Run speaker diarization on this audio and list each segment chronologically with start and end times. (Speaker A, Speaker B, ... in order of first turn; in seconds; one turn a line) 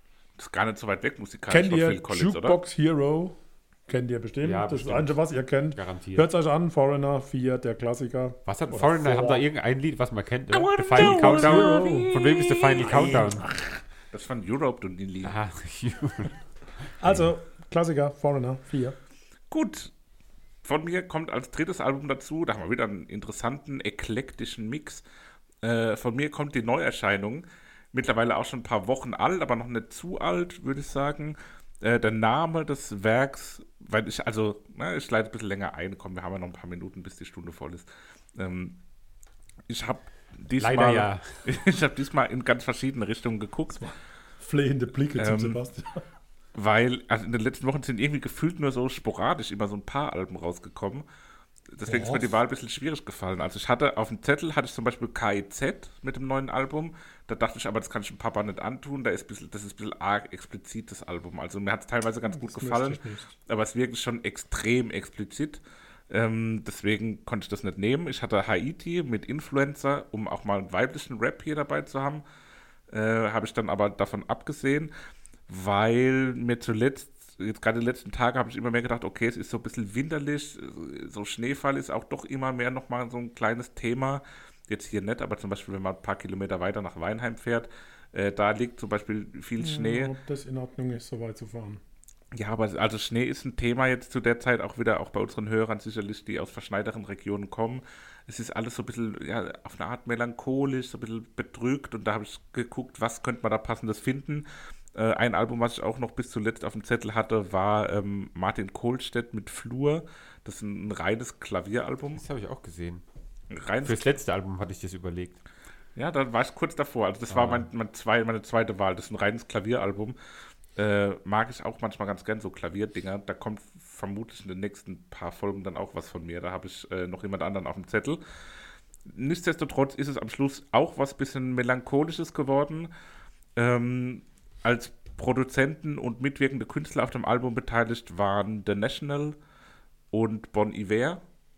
Speaker A: 0.4-2.6
Speaker B: 1.5-9.4
Speaker C: 4.4-5.2
Speaker C: 5.7-6.3
Speaker C: 8.4-13.4
Speaker A: 10.5-13.1
Speaker B: 10.9-12.1
Speaker B: 12.8-13.8
Speaker A: 14.1-15.3
Speaker C: 15.2-16.4
Speaker B: 17.0-19.0
Speaker A: 19.5-19.9
Speaker A: 20.6-25.0
Speaker A: 25.6-38.8
Speaker A: 39.7-43.9
Speaker C: 40.5-41.2
Speaker B: 43.8-46.0
Speaker A: 45.2-45.6
Speaker A: 46.5-51.0
Speaker A: 51.7-72.2
Speaker B: 51.8-52.4
Speaker B: 62.3-63.3
Speaker A: 72.9-74.9
Speaker A: 75.5-90.1
Speaker B: 89.6-91.8
Speaker A: 92.3-112.2
Speaker C: 112.2-113.0
Speaker A: 113.5-114.1
Speaker C: 113.8-115.4
Speaker A: 116.0-120.2
Speaker C: 117.3-117.7
Speaker A: 120.8-128.2
Speaker A: 129.1-132.9
Speaker A: 133.6-139.3
Speaker A: 140.1-141.2